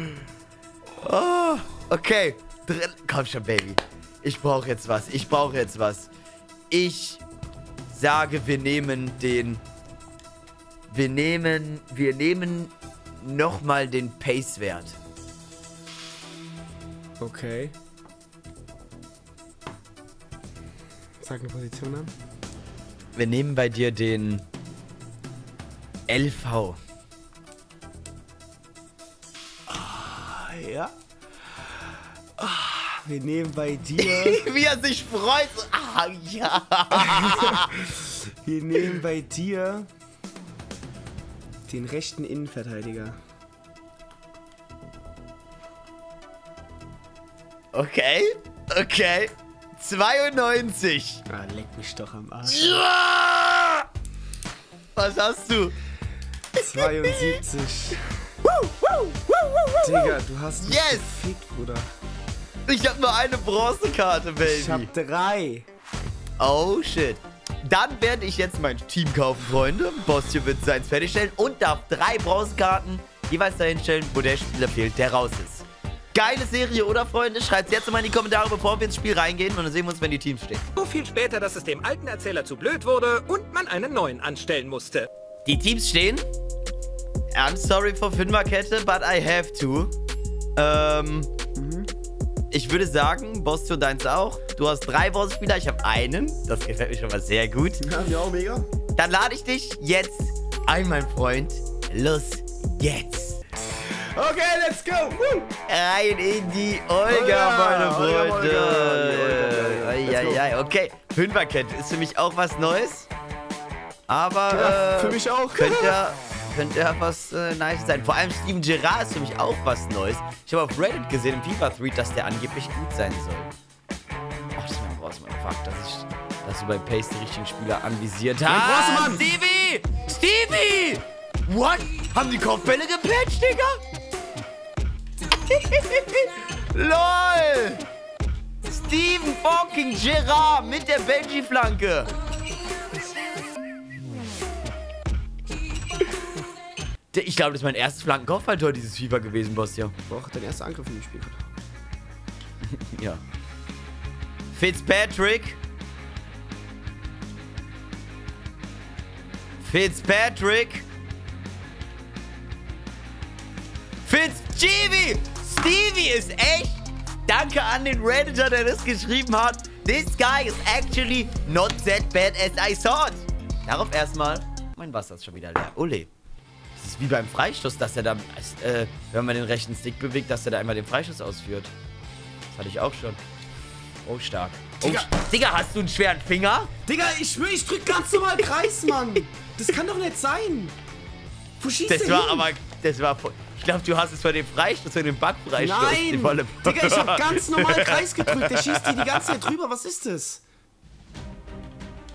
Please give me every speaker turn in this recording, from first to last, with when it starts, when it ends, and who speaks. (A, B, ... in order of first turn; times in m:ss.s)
0:01.0-0:06.1 A
0:06.7-0:07.2 A
0:07.9-0:09.6 A
0:10.9-0:15.0 A
0:17.2-0:17.7 B
0:21.2-0:22.1 B
0:23.2-0:24.4 A
0:26.1-0:26.8 A
0:29.8-0:30.9 B
0:32.4-0:34.4 B
0:34.0-0:37.8 A
0:36.9-0:39.9 B
0:41.7-0:43.2 B
0:47.7-0:51.2 A
0:51.3-0:52.8 B
0:52.4-0:53.8 A
0:55.0-0:55.8 A
0:56.6-0:58.0 B
0:56.8-0:57.3 A
0:58.4-1:01.1 A
0:59.8-1:01.9 B
1:02.7-1:04.9 A
1:04.4-1:05.7 B
1:06.4-1:20.6 A
1:20.8-1:25.1 C
1:25.4-1:26.3 A
1:27.3-1:29.9 A
1:30.6-1:31.3 A
1:31.6-1:31.9 B
1:32.5-1:37.8 A
1:37.8-1:38.6 B
1:39.0-1:43.4 A
1:43.8-1:45.5 B
1:45.7-1:53.1 A
1:47.1-1:50.5 B
1:54.1-2:03.5 A
1:54.5-1:56.0 B
2:04.6-2:13.8 A
2:08.5-2:09.3 B
2:15.4-2:17.8 A
2:18.6-2:22.1 A
2:27.1-2:29.9 A
2:30.1-2:31.4 B
2:32.8-2:33.2 A
2:34.5-2:35.6 A
2:39.6-2:40.8 A
2:44.0-2:56.1 A
2:56.8-3:01.7 A
3:02.5-3:03.2 A
3:04.0-3:06.7 A
3:04.8-3:05.1 B
3:06.9-3:10.8 B
3:11.6-3:12.5 B
3:11.9-3:19.4 A
3:15.6-3:20.4 B